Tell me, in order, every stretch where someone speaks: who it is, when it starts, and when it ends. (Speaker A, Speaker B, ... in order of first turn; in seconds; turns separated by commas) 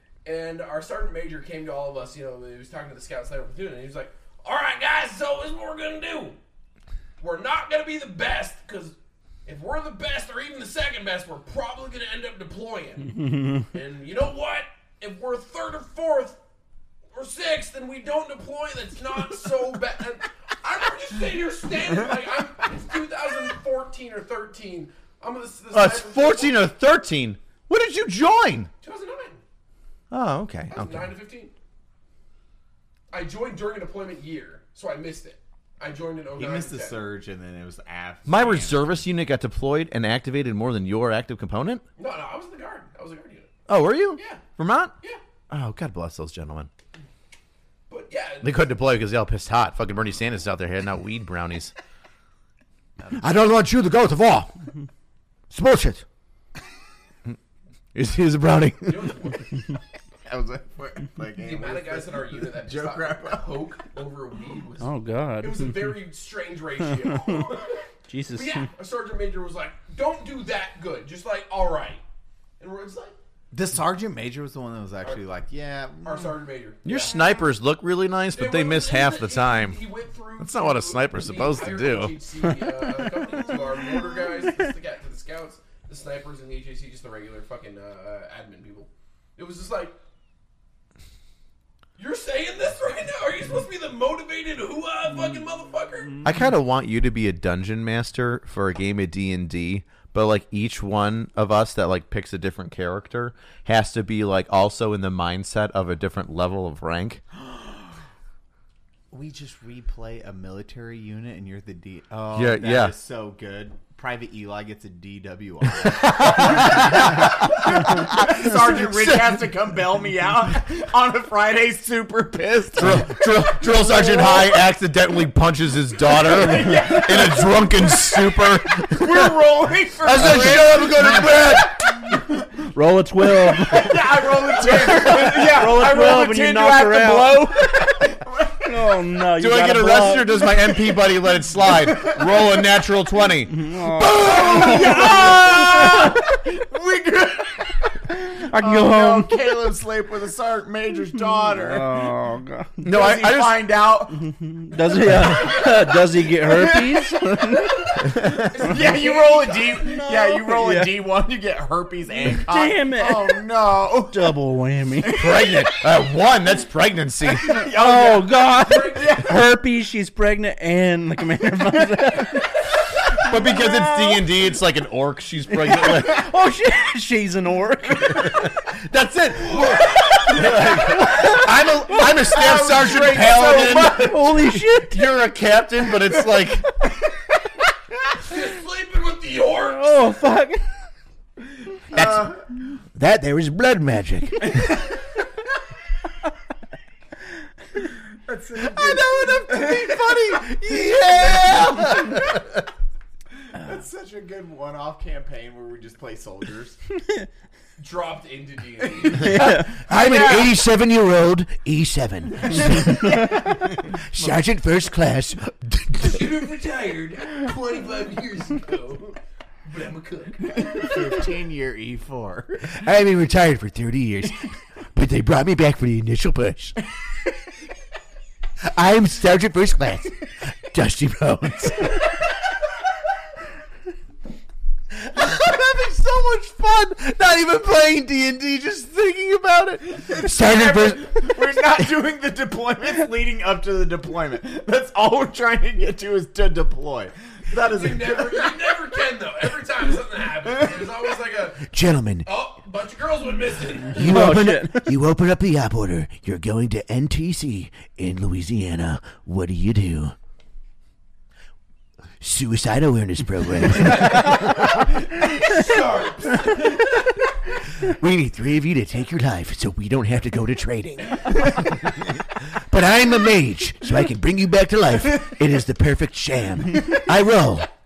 Speaker A: 0.2-6.4, Speaker A: 7.2-8.9, Speaker A: 9.4-16.4, Speaker A: 17.1-26.6, Speaker B: 25.7-28.7, Speaker A: 28.8-29.4, Speaker B: 30.1-31.1, Speaker A: 30.7-31.5, Speaker A: 33.1-37.0, Speaker C: 36.4-39.0, Speaker B: 38.2-41.8, Speaker A: 42.0-43.5, Speaker B: 43.7-44.9, Speaker A: 44.1-44.4, Speaker B: 45.5-46.7, Speaker A: 47.9-48.5, Speaker B: 48.4-51.7, Speaker B: 53.2-54.5, Speaker D: 53.2-54.2, Speaker D: 55.5-56.0, Speaker B: 58.0-58.8, Speaker D: 58.0-59.1, Speaker A: 58.8-59.5, Speaker C: 60.2-63.8, Speaker A: 61.4-72.0, Speaker E: 64.8-65.9, Speaker E: 68.1-68.7, Speaker A: 72.6-73.1, Speaker C: 73.5-76.3, Speaker A: 76.0-77.1, Speaker B: 76.8-79.8, Speaker A: 78.3-90.0, Speaker B: 80.4-82.1, Speaker E: 82.6-83.2, Speaker A: 92.0-96.2, Speaker B: 96.2-107.2, Speaker C: 107.5-107.9, Speaker C: 109.1-124.6, Speaker B: 112.3-112.9, Speaker B: 115.8-119.4, Speaker B: 122.7-129.4, Speaker C: 126.0-131.6, Speaker B: 130.0-131.8, Speaker E: 130.2-131.0, Speaker E: 132.7-140.4, Speaker C: 133.4-138.8, Speaker B: 139.4-146.2, Speaker C: 140.9-142.6, Speaker E: 143.4-146.2, Speaker C: 144.1-152.1, Speaker E: 148.1-149.7, Speaker E: 151.4-152.9, Speaker B: 152.8-153.7, Speaker C: 152.8-154.3, Speaker E: 154.2-157.9, Speaker C: 155.1-164.3, Speaker B: 158.0-158.5, Speaker A: 158.3-160.1, Speaker E: 159.7-161.0, Speaker E: 162.2-163.4, Speaker E: 164.1-165.5, Speaker C: 165.0-165.7, Speaker B: 165.2-167.5, Speaker C: 167.4-169.4, Speaker E: 167.6-172.6, Speaker A: 168.5-169.2, Speaker B: 173.1-176.3, Speaker E: 173.6-174.2, Speaker E: 175.5-178.4, Speaker B: 178.1-186.7, Speaker A: 179.5-181.0, Speaker C: 182.1-184.4, Speaker E: 183.9-185.1, Speaker A: 188.2-190.1, Speaker E: 189.6-190.7, Speaker C: 191.9-192.3, Speaker B: 191.9-192.2, Speaker D: 191.9-192.3, Speaker D: 192.9-194.6, Speaker C: 198.2-202.3, Speaker B: 198.7-202.6, Speaker C: 203.5-206.8, Speaker A: 207.8-209.4, Speaker D: 209.2-216.2, Speaker C: 209.3-210.5, Speaker E: 209.3-209.7, Speaker C: 212.7-213.3, Speaker A: 216.0-221.0, Speaker C: 220.5-222.7, Speaker D: 222.7-226.8, Speaker D: 228.7-232.0, Speaker B: 234.9-239.9, Speaker C: 239.9-248.7, Speaker D: 240.2-241.3, Speaker A: 247.6-254.1, Speaker D: 251.7-252.3, Speaker D: 253.9-260.1, Speaker E: 254.0-255.0, Speaker D: 262.2-264.4, Speaker A: 263.8-267.0, Speaker D: 267.8-271.5, Speaker D: 272.5-277.7